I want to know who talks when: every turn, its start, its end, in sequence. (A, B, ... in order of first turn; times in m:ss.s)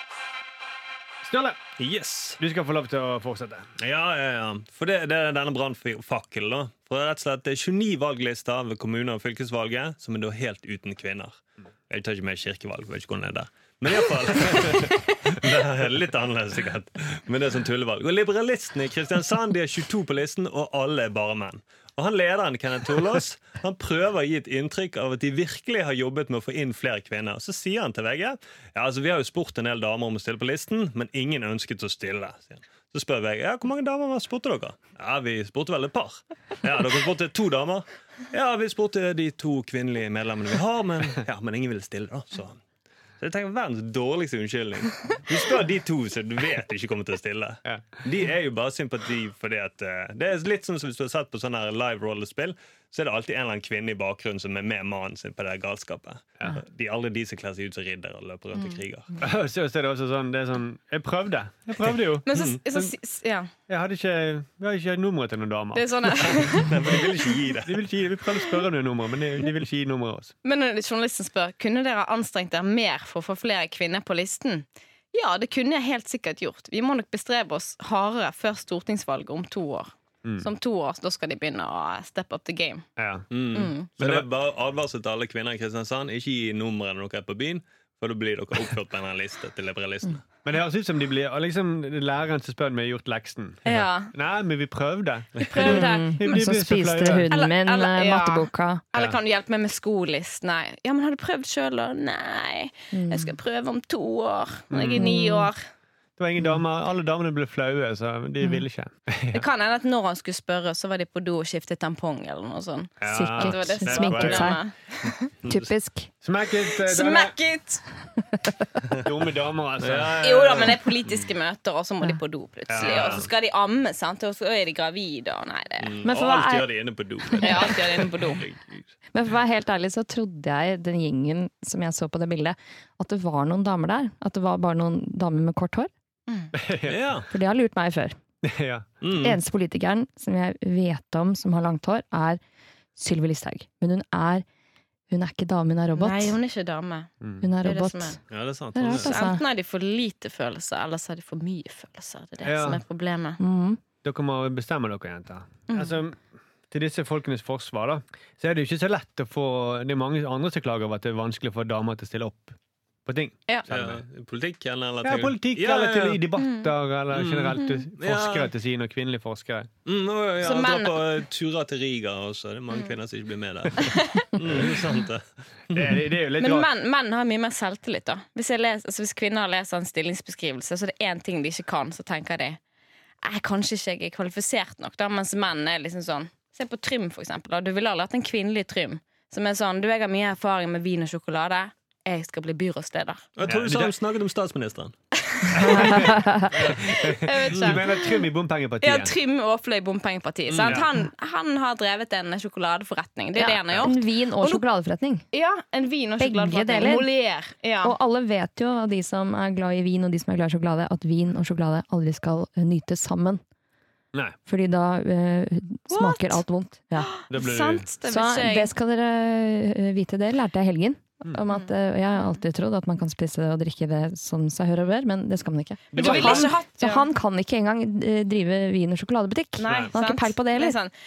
0:01.2-0:01.6 A
0:01.8-0:02.4 B
0:02.4-0:03.7 A
0:03.8-0:42.6 B
0:43.2-0:59.1 B
0:47.7-0:48.0 A
0:59.2-1:02.9 A
1:02.2-1:03.5 C
1:02.3-1:02.6 B
1:03.7-1:06.5 A
1:05.7-1:07.0 C
1:06.3-1:07.8 B
1:07.6-1:10.3 A
1:10.4-1:22.8 C
1:23.0-1:23.3 A
1:23.3-1:30.2 B
1:23.5-1:23.9 C
1:24.0-1:24.3 A
1:30.4-1:37.3 A
1:33.6-1:34.1 C
1:35.4-1:36.4 C
1:35.6-1:38.8 D
1:37.3-1:45.6 C
1:42.9-1:43.3 D
1:44.7-1:45.1 A
1:45.0-1:45.5 D
1:46.2-1:49.4 A
1:49.3-1:55.3 C
1:53.0-1:54.6 A
1:53.1-1:54.6 D
1:55.4-1:55.7 B
1:55.5-1:56.1 D
1:56.2-1:57.4 A
1:56.6-1:57.8 C
1:59.0-2:00.7 A
1:59.8-2:01.3 B
2:00.2-2:06.0 C
2:02.7-2:03.2 A
2:02.8-2:03.2 B
2:05.8-2:08.9 B
2:06.0-2:06.7 D
2:07.2-2:07.8 D
2:07.4-2:08.4 C
2:09.1-2:15.9 D
2:16.5-2:17.1 A
2:16.9-2:17.3 B
2:17.3-2:18.2 D
2:18.4-2:18.9 A
2:19.0-2:19.4 B
2:19.1-2:22.4 D
2:23.0-2:24.4 D
2:25.1-2:26.4 D
2:26.0-2:27.1 C
2:27.2-2:27.5 A
2:27.4-2:28.2 D
2:27.6-2:28.2 C
2:28.3-2:29.2 B
2:28.8-2:29.4 D
2:28.9-2:33.4 C
2:32.4-2:32.8 A
2:33.4-2:33.8 D
2:34.0-2:44.0 A
2:35.7-2:36.0 C
2:43.7-2:46.2 B
2:45.0-2:49.7 A
2:46.4-2:46.7 C
2:47.1-2:48.5 B
2:49.8-2:56.0 B
2:50.4-2:51.0 C
2:53.8-2:54.3 C
2:55.7-2:56.7 A
2:56.4-3:02.6 C
3:03.2-3:13.3 C
3:13.4-3:14.9 B
3:13.4-3:13.9 A
3:15.3-3:16.1 C
3:15.5-3:19.1 A
3:15.6-3:16.5 D
3:16.5-3:16.8 B
3:16.8-3:18.2 C
3:17.5-3:17.8 B
3:18.8-3:24.6 C
3:20.5-3:20.8 B
3:23.4-3:25.2 D
3:25.3-3:28.0 C
3:26.2-3:27.1 D
3:27.8-3:33.4 D
3:34.5-3:37.1 D
3:35.9-3:36.4 C
3:37.0-3:38.7 C
3:37.3-3:37.9 A
3:38.1-3:50.8 D
3:41.5-3:42.4 C
3:45.9-3:46.6 A
3:45.9-3:47.1 C
3:49.6-3:50.9 C